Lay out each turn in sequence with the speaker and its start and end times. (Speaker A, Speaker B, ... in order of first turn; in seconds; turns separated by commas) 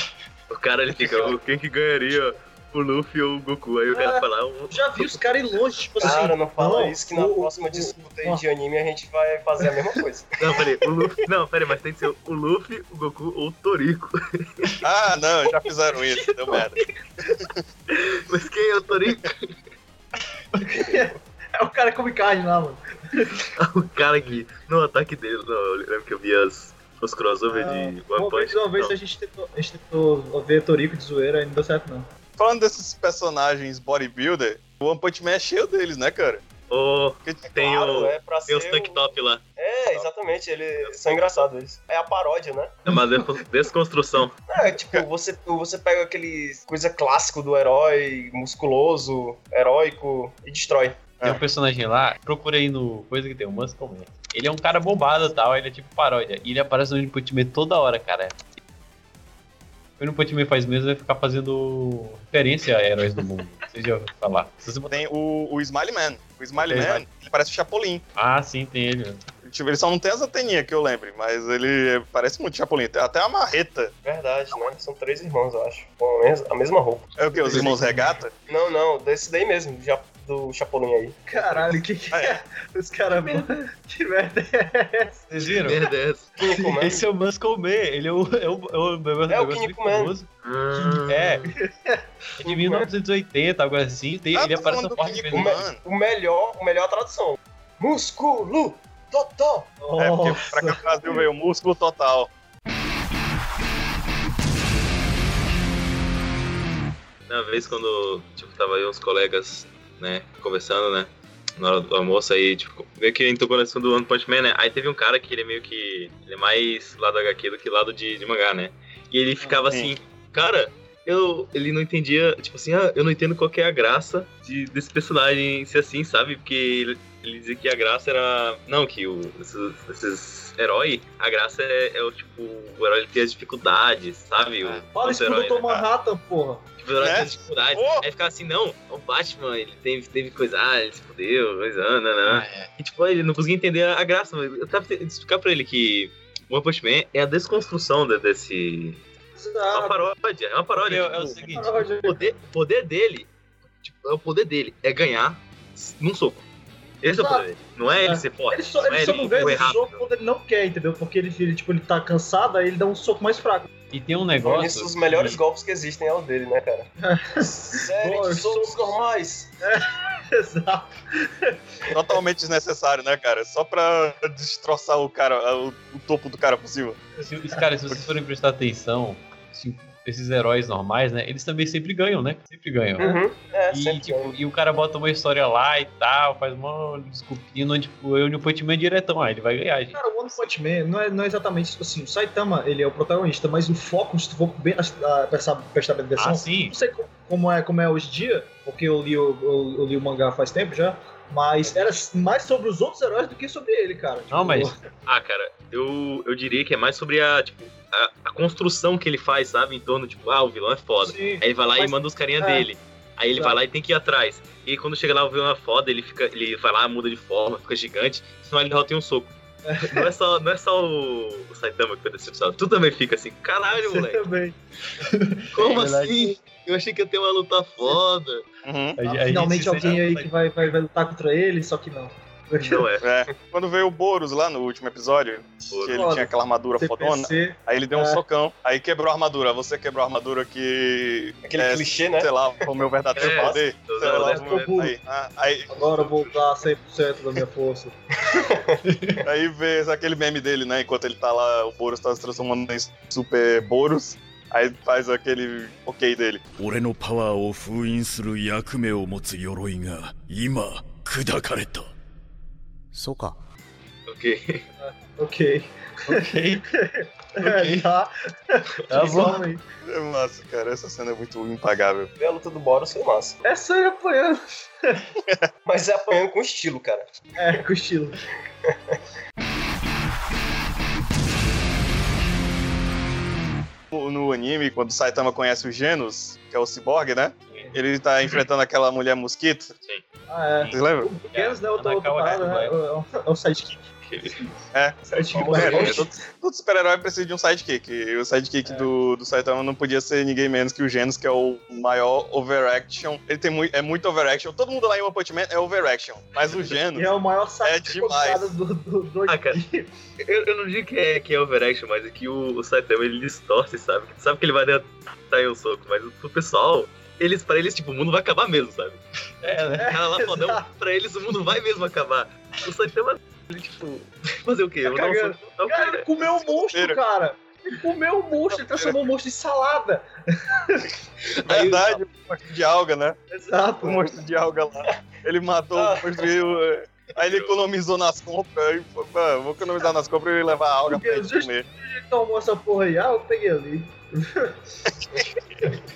Speaker A: 0.5-5.2, Speaker B: 3.9-8.4, Speaker C: 6.0-10.6, Speaker A: 10.4-14.7, Speaker D: 14.8-16.8, Speaker B: 16.0-17.4, Speaker A: 17.9-19.5, Speaker B: 20.5-23.5, Speaker A: 23.6-29.0, Speaker B: 27.5-32.1, Speaker D: 32.4-36.4, Speaker A: 36.7-39.4, Speaker C: 37.5-39.0, Speaker C: 39.6-42.8, Speaker A: 42.9-44.4, Speaker C: 44.5-51.0, Speaker E: 51.2-58.4, Speaker E: 60.0-65.0, Speaker D: 64.9-68.0, Speaker E: 66.5-67.0, Speaker E: 68.2-69.2, Speaker D: 69.4-73.9, Speaker C: 74.0-77.7, Speaker D: 77.2-78.3, Speaker E: 77.5-78.1, Speaker C: 78.5-81.8, Speaker B: 81.3-85.3, Speaker D: 82.1-82.4, Speaker E: 83.2-83.4, Speaker E: 85.3-85.8, Speaker A: 85.4-86.3, Speaker C: 86.4-87.0, Speaker E: 86.4-90.3, Speaker C: 89.3-90.1, Speaker A: 90.4-91.5, Speaker E: 91.0-91.5, Speaker B: 91.5-92.0, Speaker E: 92.4-95.6, Speaker C: 92.4-92.9, Speaker D: 94.3-95.8, Speaker C: 95.3-99.7, Speaker B: 99.8-101.2, Speaker D: 100.0-102.3, Speaker A: 107.3-135.9, Speaker B: 134.9-136.6, Speaker A: 136.8-149.0, Speaker D: 137.0-138.1, Speaker E: 142.2-142.7, Speaker B: 149.4-150.1, Speaker A: 149.7-151.5, Speaker E: 150.8-151.9, Speaker B: 151.5-152.3, Speaker A: 152.0-153.3, Speaker A: 153.8-156.4, Speaker A: 157.0-160.0, Speaker B: 157.1-163.7, Speaker E: 163.9-165.4, Speaker C: 164.4-166.9, Speaker B: 167.0-168.9, Speaker C: 167.6-169.5, Speaker B: 169.6-172.0, Speaker D: 171.9-177.0, Speaker E: 177.2-183.2, Speaker C: 183.0-184.4, Speaker E: 183.7-190.4, Speaker B: 189.9-204.8, Speaker E: 196.2-196.8, Speaker A: 201.6-202.0, Speaker E: 204.3-204.7, Speaker A: 205.1-224.2, Speaker B: 211.0-212.7, Speaker B: 213.3-213.6, Speaker B: 219.6-220.1, Speaker B: 223.8-225.4, Speaker A: 225.5-228.5, Speaker E: 225.6-226.4, Speaker D: 228.6-229.0, Speaker E: 229.0-230.2, Speaker B: 229.0-232.9, Speaker A: 232.6-233.0, Speaker D: 233.0-246.4, Speaker A: 235.7-236.0, Speaker B: 235.8-238.2, Speaker C: 241.4-244.5, Speaker A: 243.1-244.8, Speaker B: 244.4-244.9, Speaker B: 245.7-248.0, Speaker C: 248.3-248.8, Speaker E: 248.9-249.2, Speaker D: 249.2-256.4, Speaker F: 256.6-261.9, Speaker F: 262.9-263.4, Speaker A: 264.1-264.6, Speaker B: 264.8-269.6, Speaker E: 266.1-266.6, Speaker E: 267.4-267.9, Speaker E: 268.9-269.4, Speaker D: 269.9-272.1, Speaker C: 272.2-273.4, Speaker B: 273.4-275.0, Speaker C: 275.6-277.6, Speaker B: 277.4-278.2, Speaker C: 278.6-279.0, Speaker D: 283.9-289.7, Speaker B: 290.3-294.4, Speaker D: 290.6-291.1, Speaker E: 291.3-292.8, Speaker A: 294.1-294.4, Speaker D: 294.7-308.6, Speaker B: 295.1-296.0, Speaker C: 295.1-296.1, Speaker A: 295.6-296.1, Speaker B: 306.9-309.9, Speaker A: 309.3-309.6, Speaker A: 310.2-319.0, Speaker E: 319.4-319.9, Speaker B: 319.8-320.6, Speaker A: 319.9-326.1, Speaker B: 324.8-330.9, Speaker D: 326.2-327.0, Speaker D: 328.5-329.0, Speaker A: 331.3-332.0, Speaker D: 331.5-333.2, Speaker B: 333.3-334.0, Speaker D: 333.8-341.6, Speaker C: 335.8-336.3, Speaker A: 337.1-337.6, Speaker B: 340.9-344.5, Speaker D: 344.9-345.3